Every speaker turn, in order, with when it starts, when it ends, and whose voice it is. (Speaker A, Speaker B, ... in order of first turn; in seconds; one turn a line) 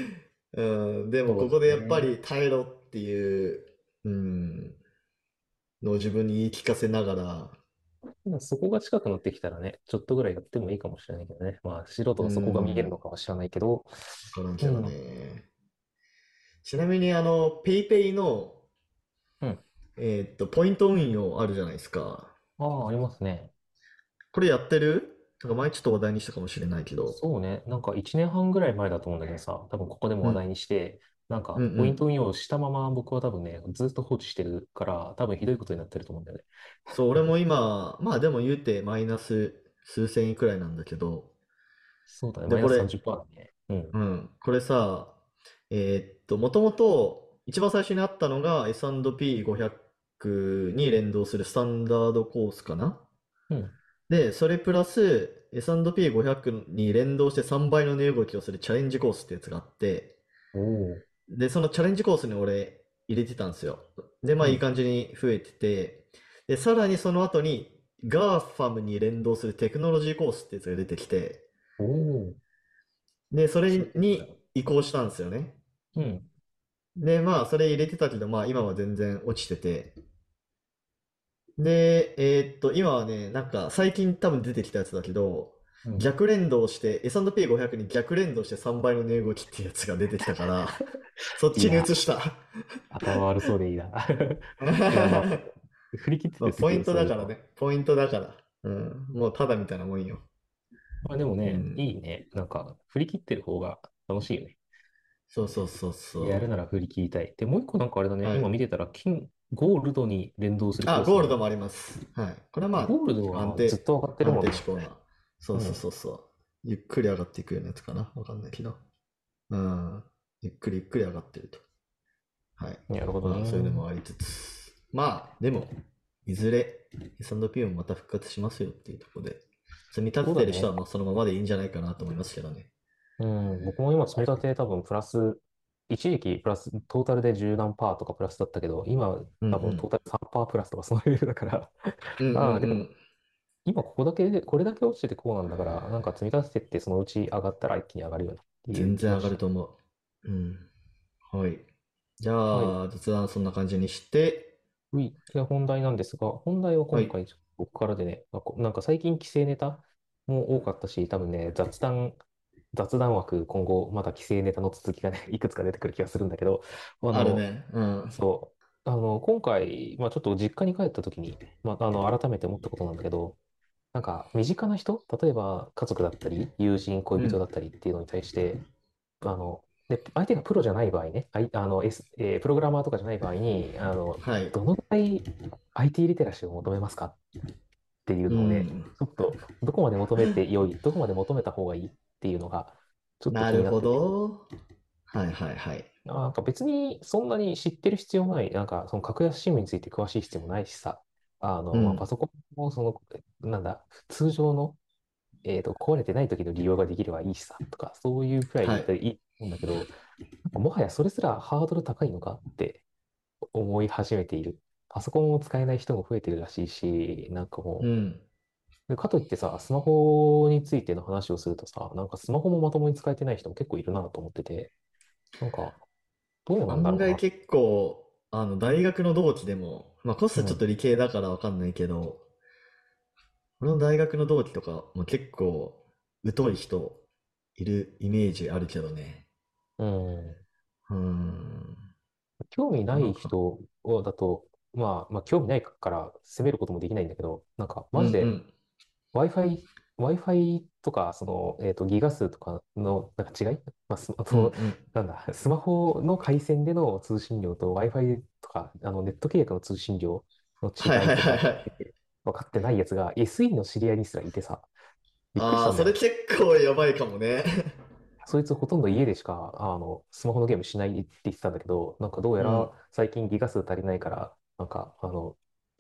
Speaker A: 0.5-4.8
Speaker B: 1.2-2.1
Speaker A: 5.8-7.6
Speaker B: 8.3-14.9
Speaker A: 12.2-13.0
Speaker A: 14.3-15.5
Speaker A: 16.6-18.6
Speaker A: 20.0-22.3
Speaker B: 22.6-23.5
Speaker A: 24.3-27.2
Speaker B: 27.1-37.3
Speaker A: 31.6-32.0
Speaker A: 36.9-41.3
Speaker B: 42.1-44.0
Speaker A: 42.5-42.9
Speaker A: 43.9-45.1
Speaker A: 45.7-53.0
Speaker B: 53.5-53.8
Speaker A: 54.1-60.1
Speaker B: 60.5-61.0
Speaker A: 61.3-71.4
Speaker B: 71.8-72.4
Speaker A: 73.3-75.6
Speaker B: 73.7-74.3
Speaker B: 76.0-76.3
Speaker A: 77.0-79.9
Speaker A: 81.6-90.8
Speaker A: 91.4-92.5
Speaker B: 91.5-91.9
Speaker B: 92.9-97.3
Speaker A: 94.6-95.4
Speaker A: 96.4-100.2
Speaker B: 101.0-104.6
Speaker A: 101.5-101.8
Speaker A: 105.3-106.5
Speaker B: 106.2-111.4
Speaker A: 108.2-108.5
Speaker A: 110.9-118.8
Speaker B: 112.7-114.7
Speaker B: 115.5-115.8
Speaker A: 119.5-121.6
Speaker A: 122.6-125.7
Speaker B: 122.9-123.8
Speaker A: 126.3-132.7
Speaker B: 130.2-130.8
Speaker B: 133.2-142.9
Speaker A: 139.4-139.9
Speaker A: 142.2-142.9
Speaker B: 143.7-149.4
Speaker A: 148.7-150.7
Speaker A: 151.3-151.7
Speaker A: 152.2-154.5
Speaker B: 152.5-152.8
Speaker B: 154.9-162.2
Speaker B: 162.7-167.4
Speaker A: 167.1-168.2
Speaker B: 168.1-173.4
Speaker B: 173.9-178.6
Speaker B: 179.2-187.2
Speaker A: 184.2-184.6
Speaker B: 188.1-194.0
Speaker A: 188.3-188.9
Speaker A: 193.3-194.5
Speaker A: 195.1-195.9
Speaker B: 196.1-204.8
Speaker A: 201.7-202.0
Speaker B: 205.4-209.9
Speaker A: 208.6-208.9
Speaker B: 210.5-212.8
Speaker B: 213.5-217.9
Speaker A: 217.8-218.2
Speaker B: 218.9-224.7
Speaker B: 225.4-225.8
Speaker B: 226.5-227.2
Speaker A: 226.7-232.2
Speaker B: 230.3-230.6
Speaker A: 233.6-237.0
Speaker A: 237.6-239.2
Speaker B: 239.8-240.4
Speaker A: 240.9-241.8
Speaker B: 242.5-248.3
Speaker A: 242.9-243.3
Speaker A: 247.9-248.5
Speaker B: 249.1-264.7
Speaker A: 254.3-254.8
Speaker A: 260.8-261.7
Speaker B: 265.3-266.0
Speaker A: 265.4-267.7
Speaker B: 268.2-275.4
Speaker A: 272.4-272.7